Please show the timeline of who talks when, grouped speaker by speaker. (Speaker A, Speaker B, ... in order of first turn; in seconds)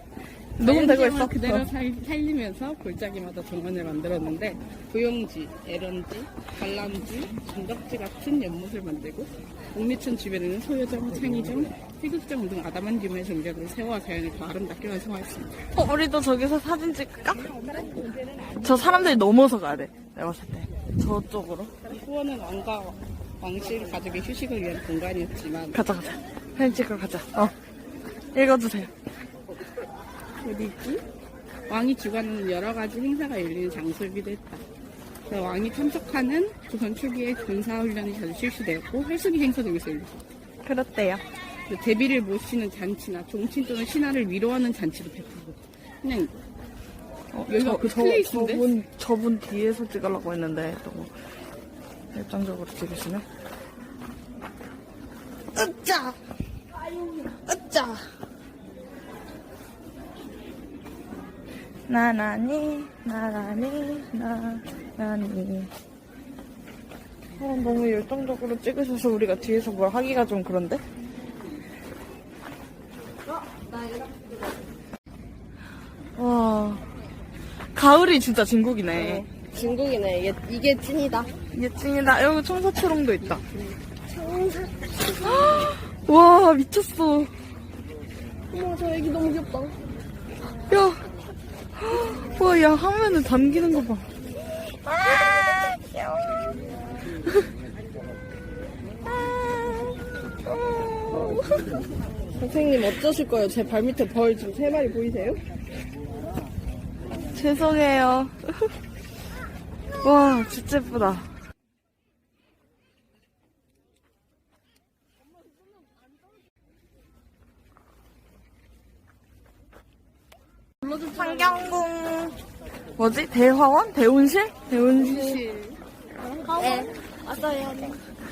Speaker A: 0.6-1.7, 15.7-17.6, 18.5-21.7, 25.7-27.5, 28.3-28.9, 40.6-41.2, 47.3-51.1, 52.1-53.2, 55.5-56.2, 57.3-58.1, 61.9-65.7, 67.4-70.8, 76.2-76.8, 77.8-79.3, 81.5-83.4, 85.2-87.3, 90.7-91.0, 91.8-94.1, 94.6-96.6, 99.2-101.7, 107.3-108.7, 110.0-111.3, 120.9-122.4, 123.0-125.4
Speaker B: 0.6-15.7, 17.5-19.1, 21.8-25.8, 30.4-31.0, 31.7-34.6, 35.3-40.2, 41.7-46.4, 47.5-48.7, 120.8-121.5, 125.0-125.8
Speaker C: 79.1-81.3, 84.1-85.0, 88.5-89.8, 102.4-105.4, 126.6-128.0